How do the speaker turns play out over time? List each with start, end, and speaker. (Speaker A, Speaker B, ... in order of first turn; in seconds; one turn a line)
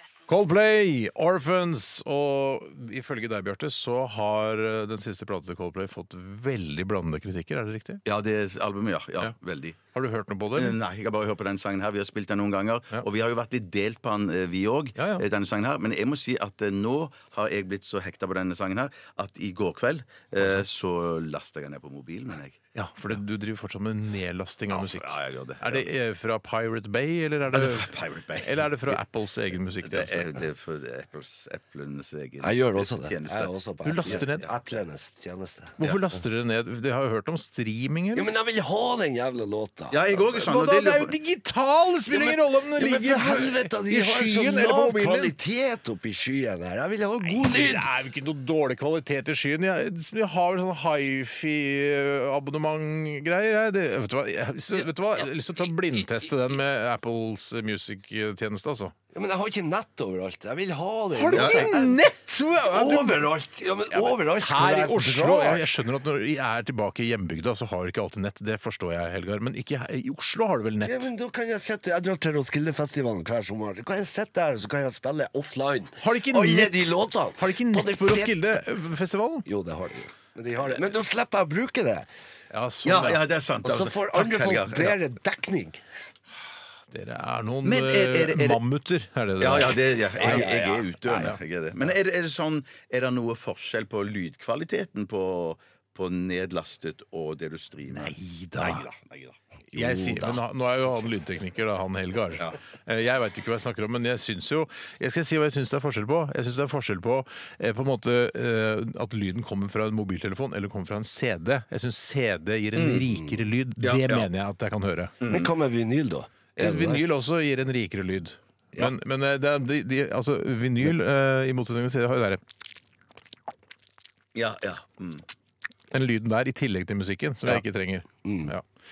Speaker A: 0.3-8.0
Speaker B: 8.1-9.8
Speaker A: 9.9-10.8
Speaker B: 10.5-22.6
Speaker A: 15.0-15.2
Speaker A: 20.4-20.6
Speaker A: 22.8-30.3
Speaker B: 24.7-25.8
Speaker B: 27.5-29.0
Speaker B: 29.8-33.5
Speaker C: 32.4-35.8
Speaker A: 33.8-34.5
Speaker B: 34.0-34.3
Speaker A: 35.8-38.3
Speaker C: 38.1-40.3
Speaker B: 39.9-41.1
Speaker A: 40.4-45.3
Speaker C: 42.1-47.9
Speaker A: 47.3-58.9
Speaker C: 59.1-62.0
Speaker A: 61.1-63.2
Speaker B: 61.3-61.7
Speaker C: 62.6-65.7
Speaker A: 63.9-71.1
Speaker C: 70.8-78.6
Speaker A: 76.0-79.5
Speaker C: 79.5-82.1
Speaker A: 82.5-83.2
Speaker B: 82.8-85.0
Speaker C: 83.6-85.8
Speaker A: 86.9-91.4
Speaker B: 87.7-88.6
Speaker B: 89.4-99.4
Speaker C: 90.2-90.8
Speaker A: 97.9-98.9
Speaker A: 99.7-115.2
Speaker C: 99.8-100.3
Speaker B: 112.8-113.1
Speaker B: 113.8-114.3
Speaker B: 115.2-115.5
Speaker C: 115.3-117.0
Speaker A: 116.6-122.4
Speaker B: 124.3-125.2
Speaker A: 125.9-128.6
Speaker C: 128.2-128.5